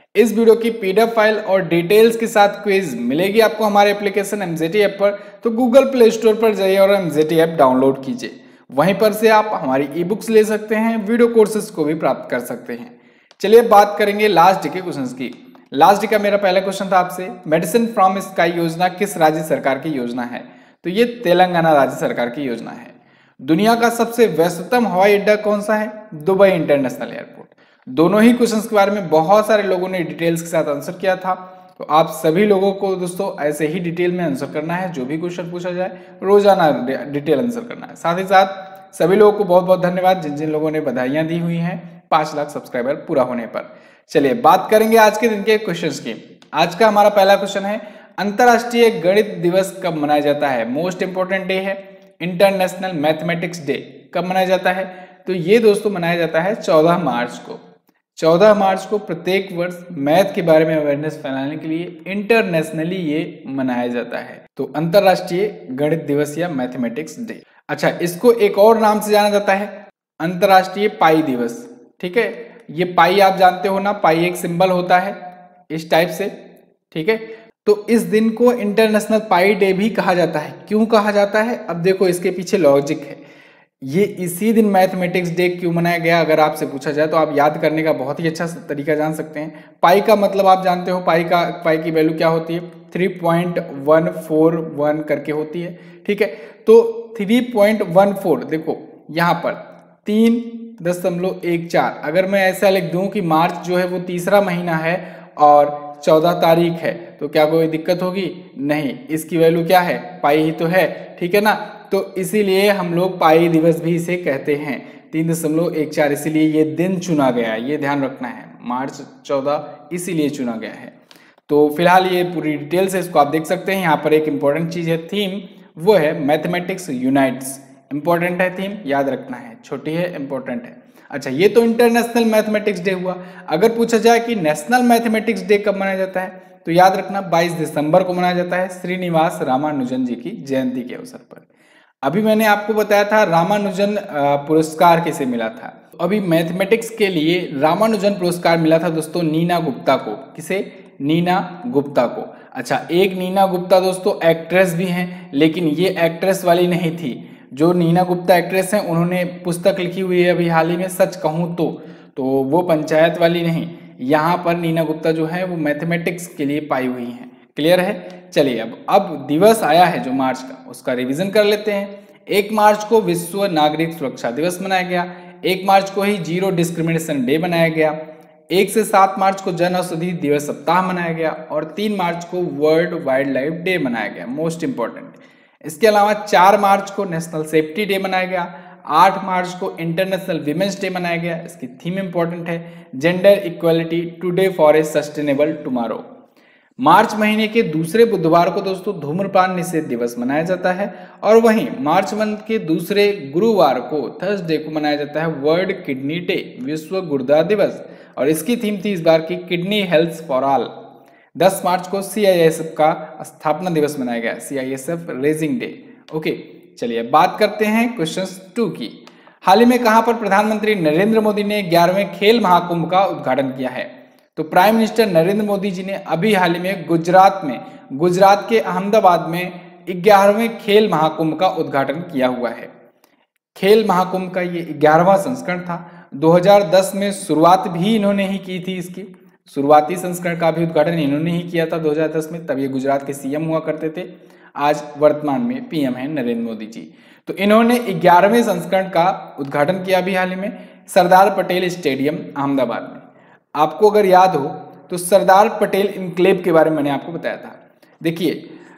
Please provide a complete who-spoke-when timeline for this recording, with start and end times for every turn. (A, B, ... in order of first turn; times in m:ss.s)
0:00.2-0:57.6 A
0:58.2-1:15.2 A
1:15.7-1:16.3 A
1:16.9-1:23.2 A
1:23.8-2:01.0 A
2:01.5-2:21.5 A
2:22.0-2:58.0 A
2:58.5-3:16.0 A
3:16.8-3:30.7 A
3:31.4-3:52.7 A
3:53.6-4:13.0 A
4:13.6-4:18.5 A